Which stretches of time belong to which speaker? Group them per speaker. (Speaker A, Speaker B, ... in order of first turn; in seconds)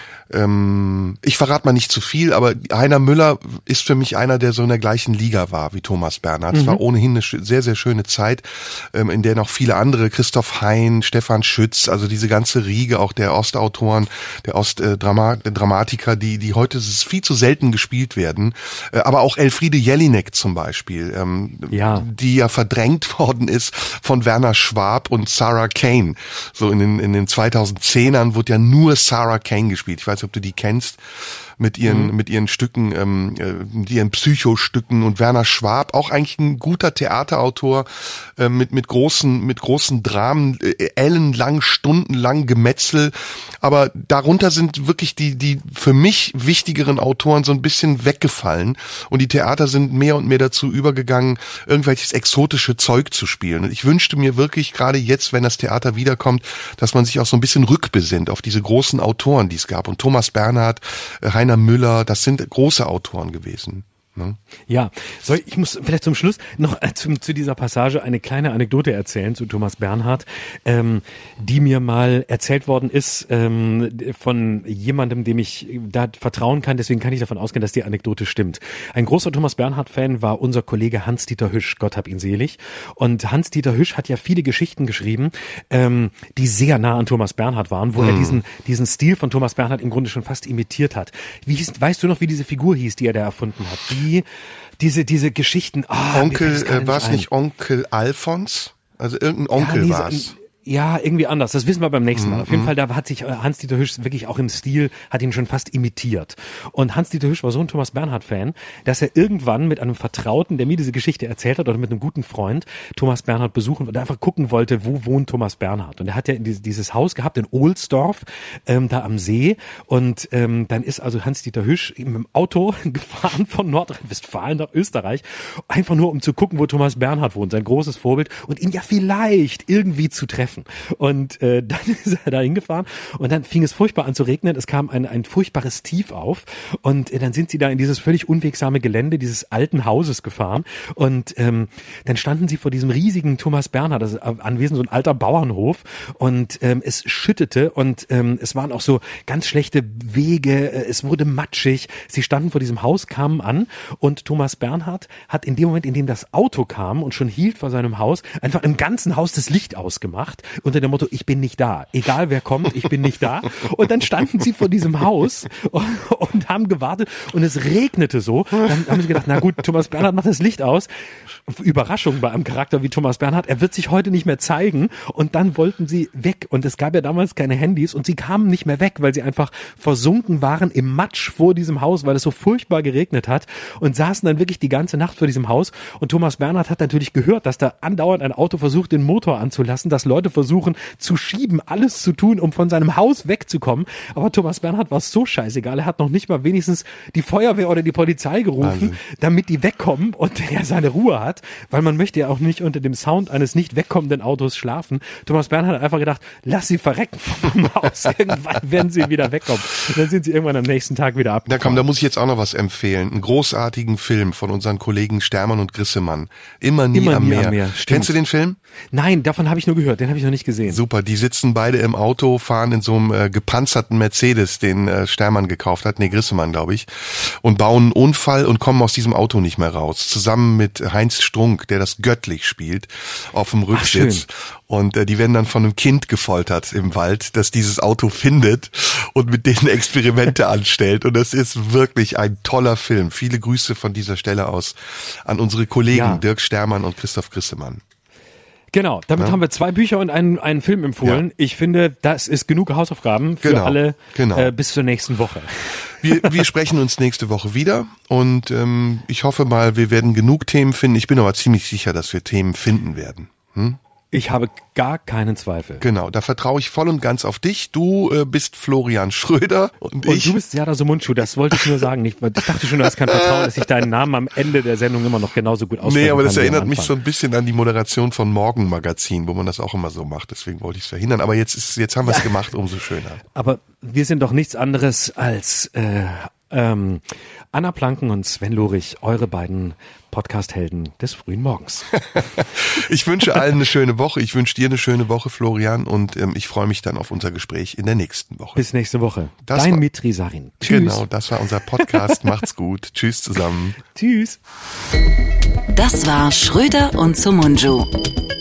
Speaker A: 0.3-64.4, 88.0-88.4, 96.1-100.3, 102.2-102.7, 198.6-199.0, 211.5-218.6, 220.7-247.8, 253.4-254.5, 256.0-263.8, 265.8-270.4, 272.8-273.6, 275.8-283.2, 291.9-298.6, 299.5-299.8, 300.6-303.8
Speaker B: 6.5-6.8, 21.7-22.1, 31.9-32.1, 64.7-94.2, 94.8-97.3, 99.5-170.9, 171.5-211.9, 216.9-218.1, 218.9-220.8, 233.7-234.2, 245.9-246.2, 248.7-256.5, 264.1-265.9, 270.0-276.9, 282.1-282.3, 283.3-292.0, 298.6-301.1, 301.8-302.2, 303.9-304.4
Speaker C: 305.7-307.9